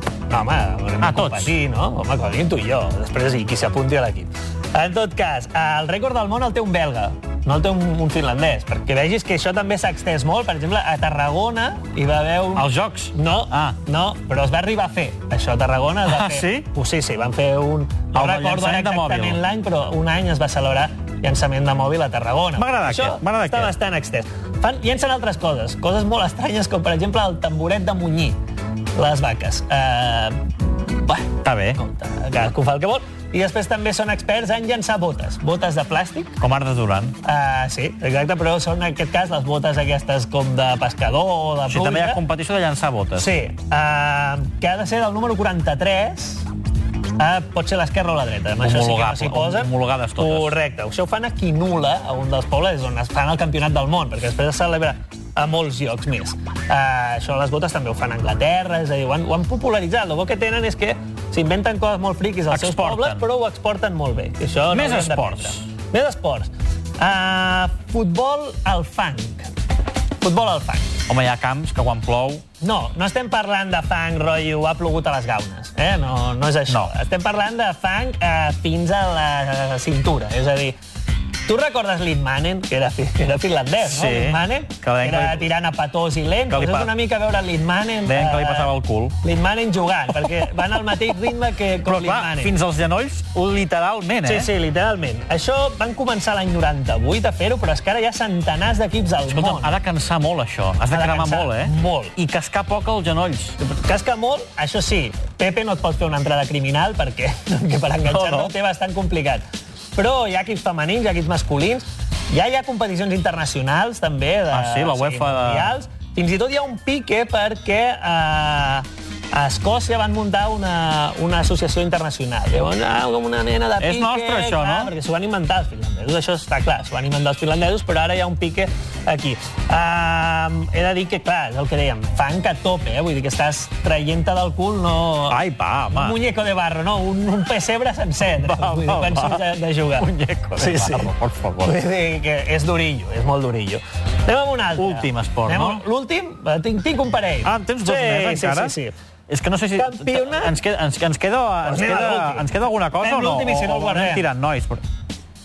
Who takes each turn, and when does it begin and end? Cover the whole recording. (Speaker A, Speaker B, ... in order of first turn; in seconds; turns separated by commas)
Speaker A: 0.3-28.4, Speaker B: 1.0-1.5, Speaker B: 12.6-13.8, Speaker B: 16.0-16.6, Speaker B: 18.1-19.4, Speaker B: 22.6-23.7, Speaker A: 28.9-36.4, Speaker B: 31.4-31.8, Speaker B: 36.4-37.1, Speaker A: 37.2-42.2, Speaker B: 41.7-43.3, Speaker A: 43.1-46.5, Speaker A: 47.2-69.5, Speaker B: 48.6-50.5, Speaker B: 62.5-63.2, Speaker B: 64.7-65.6, Speaker A: 70.2-71.0, Speaker B: 71.1-72.4, Speaker A: 72.6-80.8, Speaker A: 81.5-92.6, Speaker B: 83.8-85.5, Speaker B: 86.5-86.9, Speaker B: 88.0-89.1, Speaker B: 91.8-94.5, Speaker A: 94.2-99.8, Speaker B: 99.3-103.6, Speaker A: 100.9-102.1, Speaker A: 103.6-109.4, Speaker B: 108.0-108.5, Speaker A: 109.9-135.4, Speaker B: 114.5-115.8, Speaker B: 123.8-124.9, Speaker B: 135.3-136.2, Speaker A: 135.9-148.9, Speaker B: 138.4-139.4, Speaker B: 140.0-141.8, Speaker B: 144.8-145.8, Speaker B: 147.4-148.7, Speaker B: 149.3-154.8, Speaker A: 149.8-150.6, Speaker A: 151.6-152.5, Speaker A: 153.0-154.3